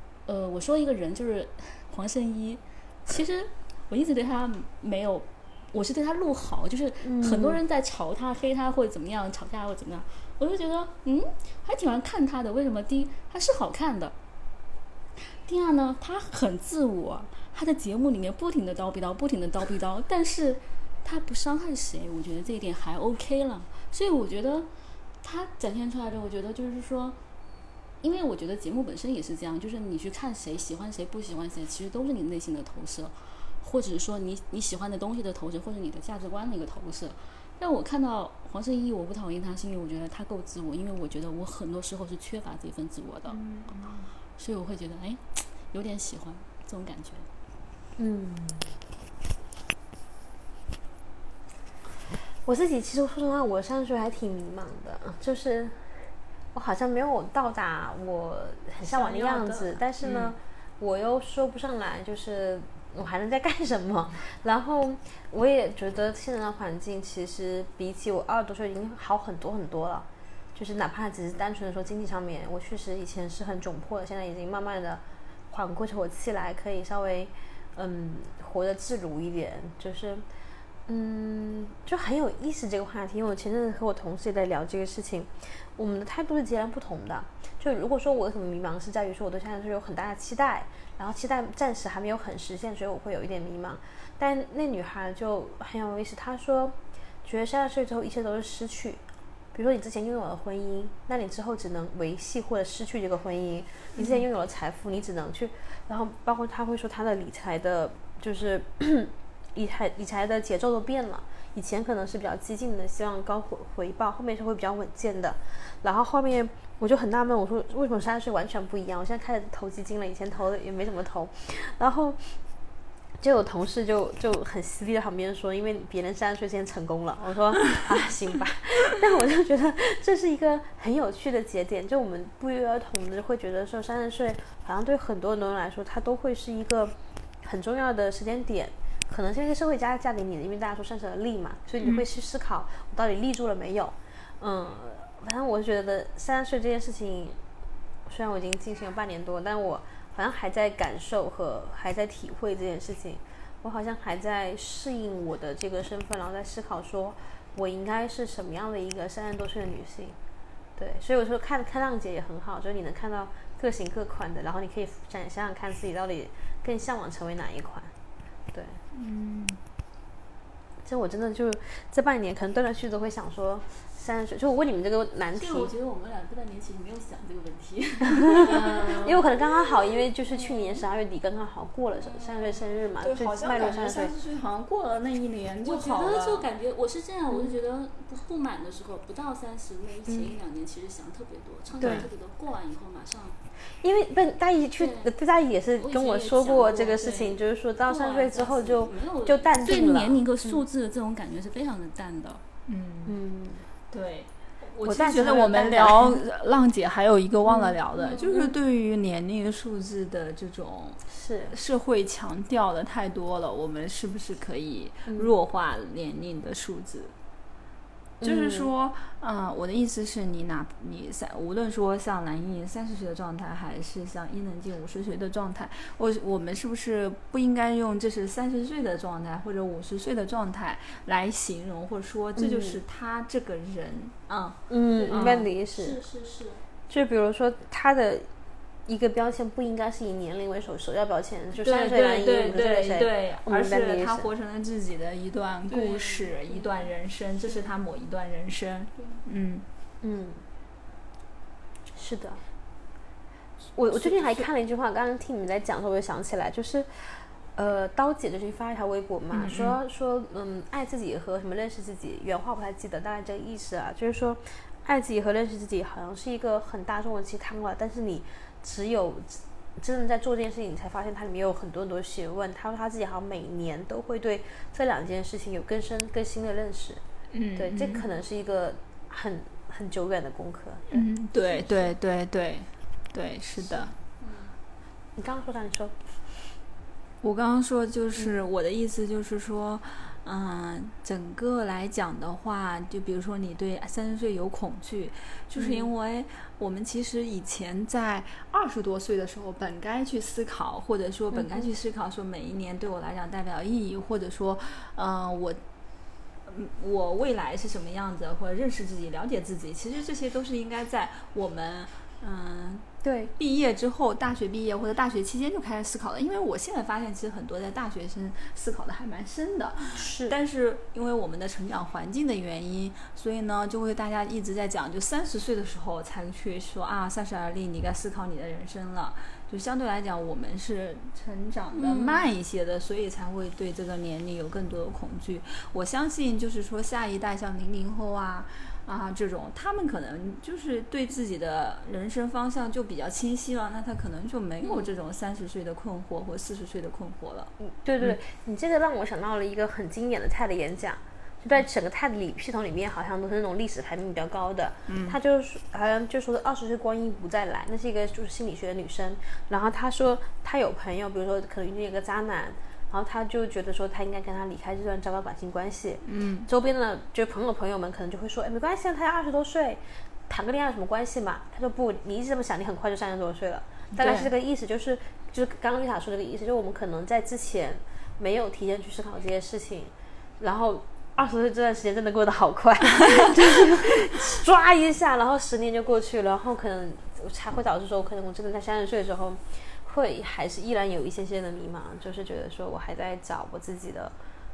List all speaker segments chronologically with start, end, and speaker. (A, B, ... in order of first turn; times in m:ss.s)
0:00.2-0:14.1 A
0:07.0-0:07.6 B
0:15.2-0:24.7 A
0:25.2-0:27.2 A
0:28.0-0:43.4 A
0:43.3-0:44.1 C
0:44.4-0:47.3 A
0:48.0-0:48.7 B
0:52.4-1:20.2 B
0:58.9-1:00.3 C
1:20.9-1:39.0 B
1:39.5-2:02.4 B
1:44.0-1:44.2 C
2:03.2-2:27.4 B
2:28.1-2:40.2 B
2:40.8-2:47.9 B
2:48.5-2:48.8 B
2:48.9-2:49.6 C
2:50.8-2:55.7 B
2:55.3-2:59.7 A
2:58.2-3:04.1 B
2:58.5-2:59.0 C
3:00.3-3:00.8 A
3:02.0-3:02.6 A
3:03.0-3:06.4 C
3:05.6-3:13.4 A
3:11.8-3:12.0 C
3:11.8-3:12.1 B
3:13.8-3:20.6 B
3:14.8-3:15.1 A
3:15.8-3:22.4 A
3:22.7-3:23.2 C
3:23.0-3:23.6 B
3:23.9-3:37.1 C
3:24.8-3:26.2 B
3:27.4-3:27.8 B
3:28.0-3:28.3 A
3:31.1-3:31.5 B
3:38.2-3:38.7 B
3:38.2-3:55.4 C
3:52.4-3:52.8 B
3:54.7-3:56.0 B
3:54.9-3:56.6 A
3:56.9-3:58.3 B
3:58.9-4:04.3 B
4:01.6-4:09.6 C
4:05.7-4:06.8 A
4:09.0-4:09.2 A
4:10.0-4:10.4 B
4:11.9-4:12.4 B
4:13.7-4:37.0 B
4:13.9-4:14.5 C
4:19.3-4:19.8 C
4:37.3-4:38.0 C
4:37.5-4:41.0 B
4:40.9-4:43.9 C
4:41.5-4:41.9 A
4:44.2-4:44.5 A
4:45.2-4:46.5 B
4:47.2-5:05.6 C
4:55.6-4:55.9 B
5:01.3-5:01.7 B
5:06.4-5:12.8 C
5:13.0-5:13.3 B
5:13.4-5:48.2 C
5:19.9-5:20.4 B
5:31.7-5:32.2 A
5:47.7-6:34.1 B
5:54.9-5:55.2 C
6:06.0-6:06.5 C
6:13.9-6:14.3 C